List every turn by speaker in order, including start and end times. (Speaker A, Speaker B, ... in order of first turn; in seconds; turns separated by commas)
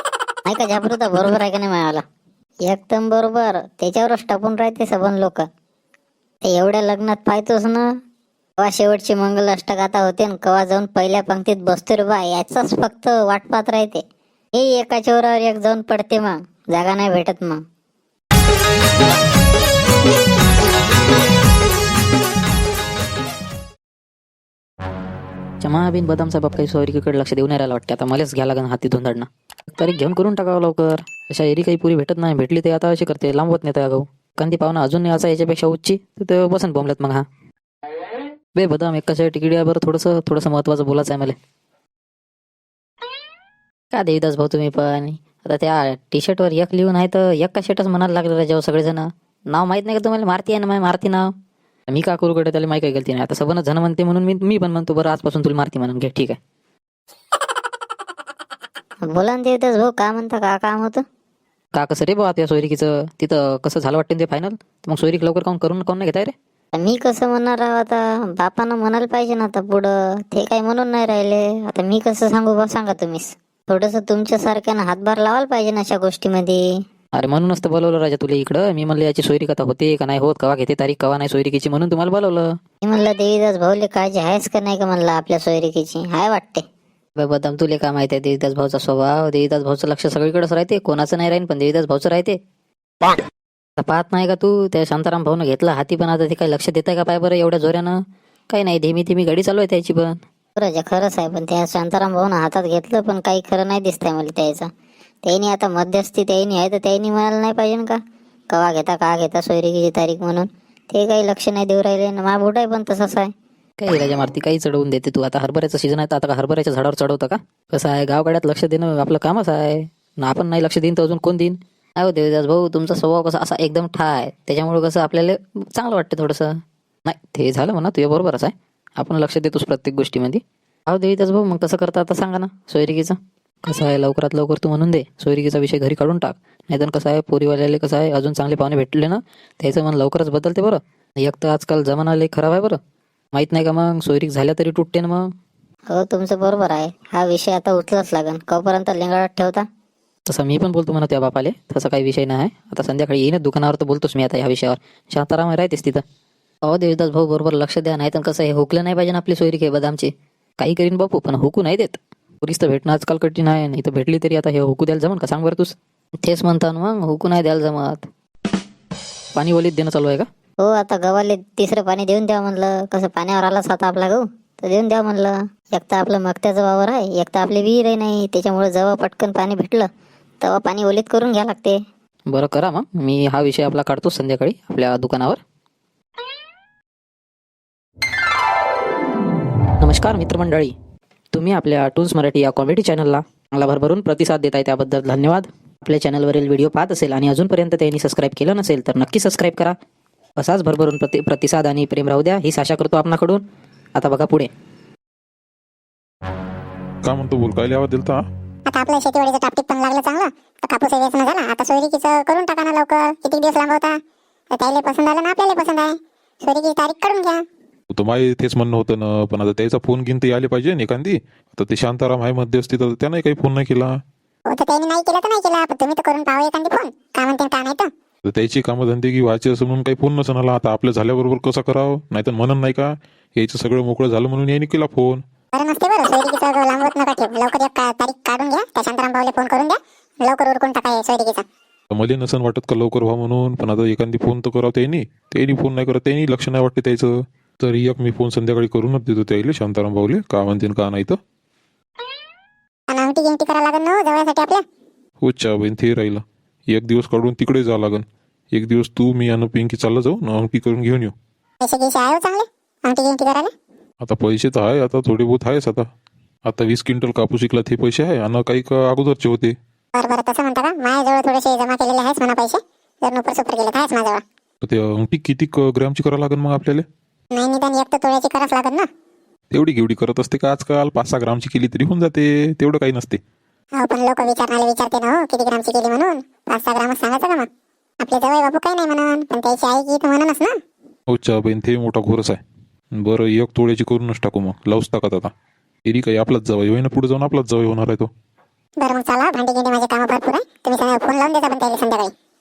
Speaker A: 0.5-2.0, Speaker A: 2.7-5.4, Speaker A: 6.4-7.8, Speaker A: 8.6-14.0, Speaker A: 14.5-17.6, Speaker B: 25.6-37.2, Speaker B: 38.5-41.4, Speaker B: 43.9-51.3, Speaker B: 51.9-56.4, Speaker A: 59.0-61.0, Speaker B: 61.7-66.3, Speaker A: 66.7-76.6, Speaker B: 77.1-82.5, Speaker A: 82.8-86.6, Speaker B: 87.2-92.4, Speaker B: 93.8-98.0, Speaker B: 98.5-100.2, Speaker A: 100.6-104.7, Speaker A: 105.2-108.0, Speaker A: 108.5-113.3, Speaker B: 113.8-142.8, Speaker B: 143.3-145.3, Speaker A: 145.9-149.6, Speaker B: 150.3-156.0, Speaker B: 156.6-168.1, Speaker B: 169.3-170.3, Speaker A: 170.6-179.9, Speaker A: 180.4-181.8, Speaker B: 182.3-185.4, Speaker B: 189.8-190.7, Speaker B: 191.3-199.7, Speaker B: 200.4-203.4, Speaker B: 203.9-204.5, Speaker C: 207.0-208.2, Speaker D: 208.7-213.9, Speaker D: 214.5-217.4, Speaker C: 217.9-223.9, Speaker D: 224.5-227.9, Speaker C: 228.2-235.2, Speaker D: 235.5-241.4, Speaker C: 241.9-247.1, Speaker C: 247.6-251.2, Speaker D: 252.9-254.6, Speaker C: 255.2-261.1, Speaker D: 261.6-263.5, Speaker C: 264.0-265.8, Speaker C: 266.5-269.5, Speaker D: 269.9-274.2, Speaker C: 274.6-276.8, Speaker D: 277.3-278.9, Speaker C: 279.5-283.2, Speaker D: 283.8-287.5, Speaker D: 288.0-290.6, Speaker C: 291.1-292.4, Speaker C: 292.9-295.3, Speaker C: 295.9-298.1, Speaker D: 298.8-302.1